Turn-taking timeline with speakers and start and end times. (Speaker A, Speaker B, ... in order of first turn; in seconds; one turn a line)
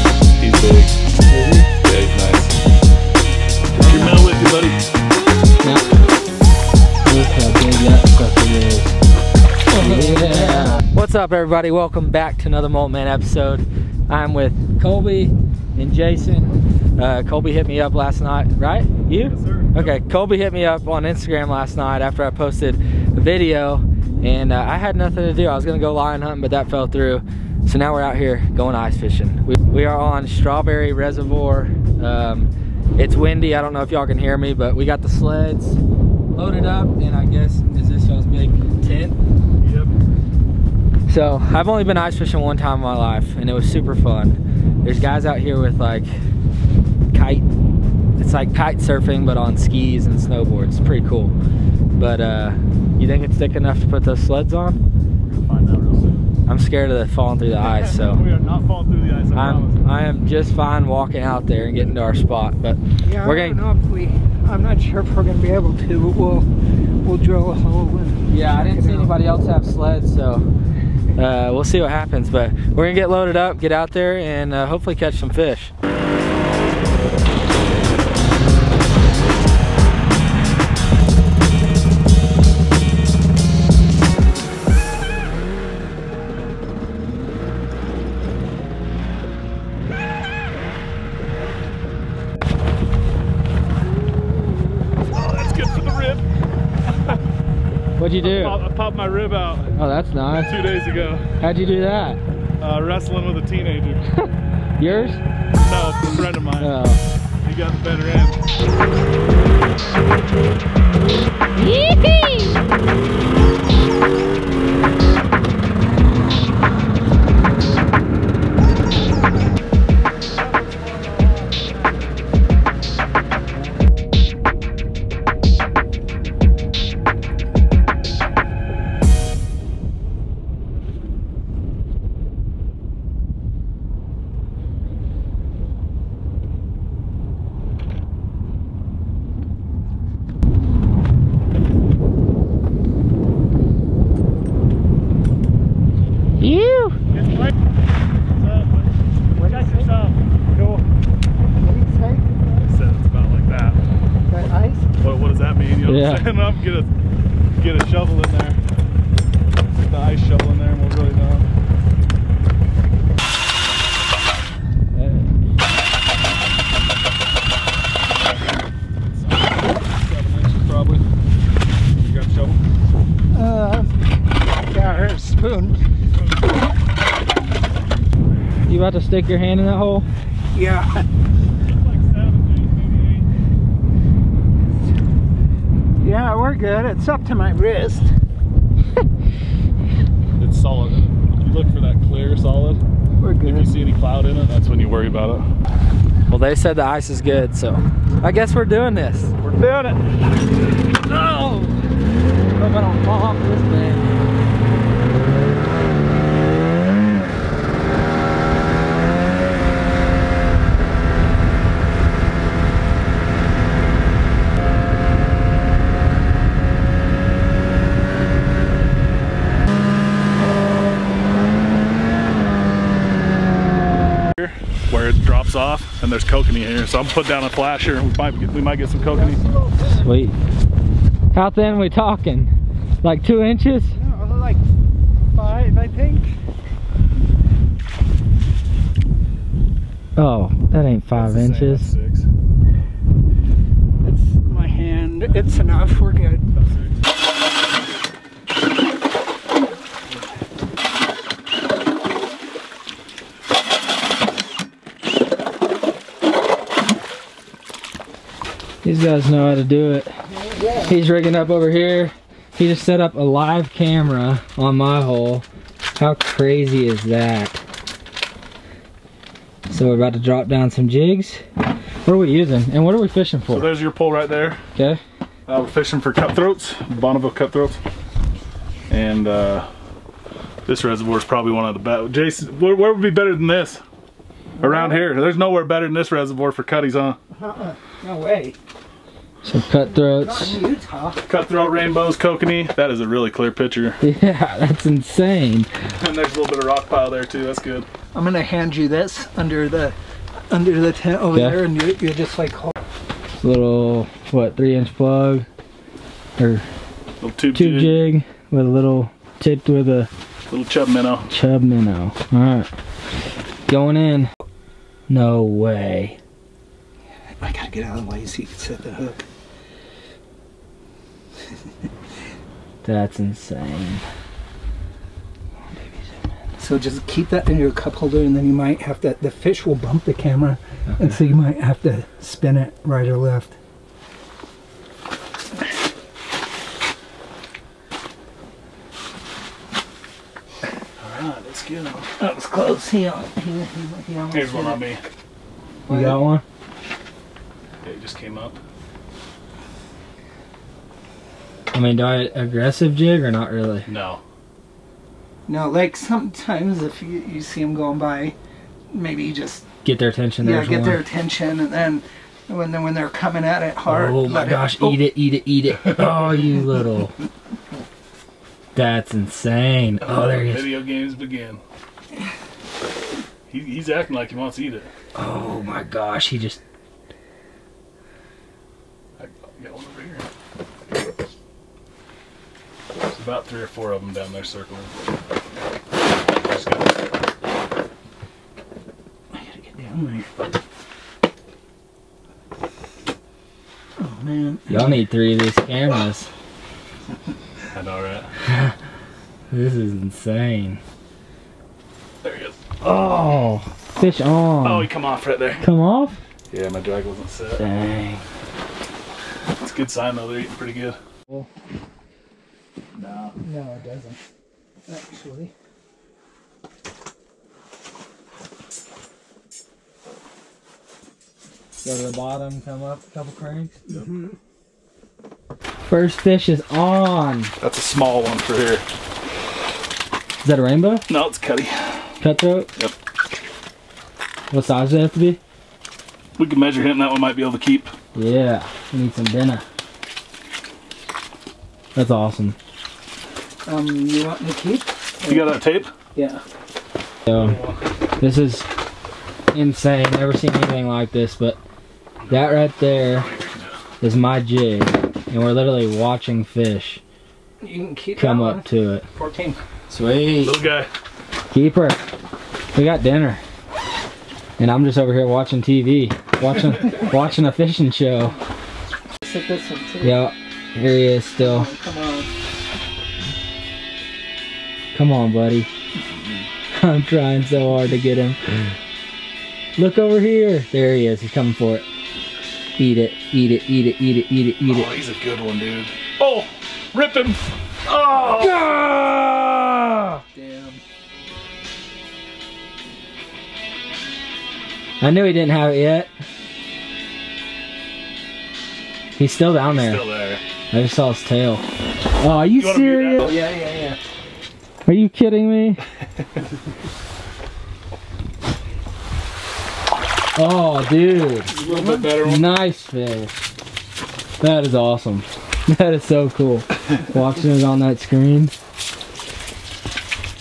Speaker A: 0.4-0.9
Speaker B: 1.3-1.7
Speaker A: 1.8-2.6
Speaker A: 3.8-4.8
Speaker B: 5.6-5.9
Speaker B: 7.0-8.9
Speaker C: 9.7-10.8
Speaker B: 9.8-35.8
Speaker A: 19.1-20.0
Speaker B: 36.3-39.2
Speaker A: 39.6-39.9
Speaker B: 41.1-46.1
Speaker B: 47.1-47.5
Speaker B: 48.2-51.4
Speaker B: 52.0-54.8
Speaker A: 55.3-56.3
Speaker B: 56.5-58.2
Speaker A: 57.6-59.8
Speaker B: 59.3-63.6
Speaker C: 63.0-66.5
Speaker C: 67.0-69.2
Speaker B: 68.3-70.5
Speaker B: 71.2-75.7
Speaker A: 95.1-96.3
Speaker B: 98.0-98.6
Speaker A: 98.1-99.8
Speaker B: 99.7-100.5
Speaker A: 100.4-101.3
Speaker B: 101.4-102.2
Speaker A: 102.6-104.1
Speaker B: 104.8-105.2
Speaker A: 104.8-106.7
Speaker B: 106.6-107.0
Speaker A: 107.4-108.4
Speaker B: 146.4-147.0
Speaker A: 147.2-147.5
Speaker A: 148.4-148.9
Speaker C: 149.4-149.9
Speaker A: 149.4-150.8
Speaker C: 151.6-152.3
Speaker A: 152.6-153.8
Speaker C: 154.3-154.9
Speaker A: 155.0-156.9
Speaker B: 155.8-156.3
Speaker A: 157.6-158.6
Speaker A: 159.8-161.5
Speaker B: 164.9-165.3
Speaker A: 168.1-171.1
Speaker A: 172.0-172.6
Speaker C: 173.3-173.9
Speaker C: 174.7-175.8
Speaker B: 178.7-180.1
Speaker C: 180.5-181.1
Speaker A: 181.7-183.3
Speaker C: 186.0-188.1
Speaker A: 190.4-192.8
Speaker C: 193.2-193.8
Speaker A: 193.4-195.5
Speaker B: 196.3-199.3
Speaker A: 199.4-200.2
Speaker B: 202.6-204.3
Speaker A: 224.3-229.4
Speaker C: 229.0-230.1
Speaker B: 229.9-230.4
Speaker B: 231.3-233.9
Speaker C: 233.9-234.6
Speaker C: 235.3-236.3
Speaker B: 240.2-241.9
Speaker A: 241.1-242.3
Speaker C: 244.0-246.5
Speaker A: 245.2-247.0
Speaker B: 258.8-260.1
Speaker C: 260.4-260.9
Speaker B: 260.9-265.4
Speaker B: 266.0-267.6
Speaker B: 269.7-271.4
Speaker B: 272.0-273.7
Speaker A: 273.5-274.6
Speaker B: 274.8-275.0
Speaker A: 275.5-277.8
Speaker A: 278.9-279.7
Speaker A: 280.7-283.8
Speaker A: 284.6-287.2
Speaker C: 284.6-285.0
Speaker C: 287.4-288.6
Speaker B: 289.4-290.6
Speaker C: 290.0-291.2
Speaker A: 291.2-294.0
Speaker B: 294.0-295.7
Speaker A: 296.0-297.9
Speaker C: 298.1-300.0
Speaker C: 300.5-302.7
Speaker B: 301.3-301.7
Speaker B: 303.4-305.5
Speaker B: 306.4-306.6
Speaker A: 307.2-308.1
Speaker B: 307.5-310.1
Speaker A: 310.5-311.3
Speaker B: 311.3-312.7
Speaker B: 313.7-314.3
Speaker B: 315.1-316.2
Speaker C: 317.4-319.2
Speaker B: 322.8-324.0
Speaker B: 325.7-326.2
Speaker C: 326.6-333.6
Speaker A: 341.0-342.1
Speaker C: 342.2-344.9
Speaker A: 344.3-345.0
Speaker C: 345.9-346.2
Speaker B: 345.9-346.4
Speaker A: 347.8-348.6
Speaker B: 351.7-353.9
Speaker A: 353.9-354.2
Speaker C: 355.5-358.4
Speaker C: 358.9-359.6
Speaker B: 359.8-361.0
Speaker C: 360.4-365.0
Speaker B: 363.9-367.2
Speaker B: 368.8-370.8
Speaker A: 370.0-371.6
Speaker A: 373.5-374.9
Speaker B: 375.1-376.6
Speaker A: 379.2-380.3
Speaker A: 383.1-384.9
Speaker A: 386.3-387.0
Speaker C: 389.3-390.3
Speaker C: 394.0-394.9
Speaker B: 394.7-396.3
Speaker A: 397.7-398.3
Speaker B: 399.5-400.8
Speaker A: 402.2-402.6
Speaker B: 402.8-404.9
Speaker A: 404.6-405.6
Speaker B: 405.6-406.2
Speaker A: 406.5-407.6
Speaker B: 407.6-408.2
Speaker A: 409.6-411.0
Speaker A: 412.9-413.4
Speaker C: 413.4-414.2
Speaker C: 414.9-415.5
Speaker B: 421.8-423.8
Speaker C: 423.9-424.4
Speaker B: 425.9-427.5
Speaker A: 427.6-428.8
Speaker B: 430.4-431.1
Speaker A: 431.1-432.0
Speaker B: 432.2-432.7
Speaker B: 434.5-435.4
Speaker A: 436.4-437.9
Speaker B: 438.1-439.6
Speaker B: 441.9-442.6
Speaker C: 443.6-445.6
Speaker A: 445.2-445.9
Speaker C: 446.1-446.4
Speaker B: 447.3-447.6
Speaker A: 447.3-447.8
Speaker B: 448.2-448.7
Speaker B: 449.5-451.6
Speaker B: 452.3-453.3
Speaker A: 453.1-453.8
Speaker B: 454.0-457.0
Speaker C: 457.6-459.6
Speaker B: 458.2-459.1
Speaker B: 459.9-460.6
Speaker A: 460.4-460.9
Speaker B: 461.5-462.0
Speaker B: 462.7-463.4
Speaker B: 464.6-468.4
Speaker C: 469.2-470.2
Speaker B: 470.0-471.7
Speaker C: 471.4-472.3
Speaker B: 474.9-475.7
Speaker B: 476.7-478.6
Speaker B: 479.8-481.9
Speaker B: 482.8-484.9
Speaker A: 484.6-488.7
Speaker B: 488.2-490.2
Speaker C: 490.3-490.8
Speaker B: 495.0-496.1
Speaker B: 499.2-500.0
Speaker A: 499.6-500.4
Speaker B: 500.7-501.6
Speaker B: 502.2-503.4
Speaker A: 502.5-503.4
Speaker C: 503.2-504.0
Speaker B: 504.9-505.8
Speaker B: 510.4-511.5
Speaker C: 511.5-512.2
Speaker A: 511.5-512.5
Speaker B: 512.2-513.4
Speaker B: 514.4-518.5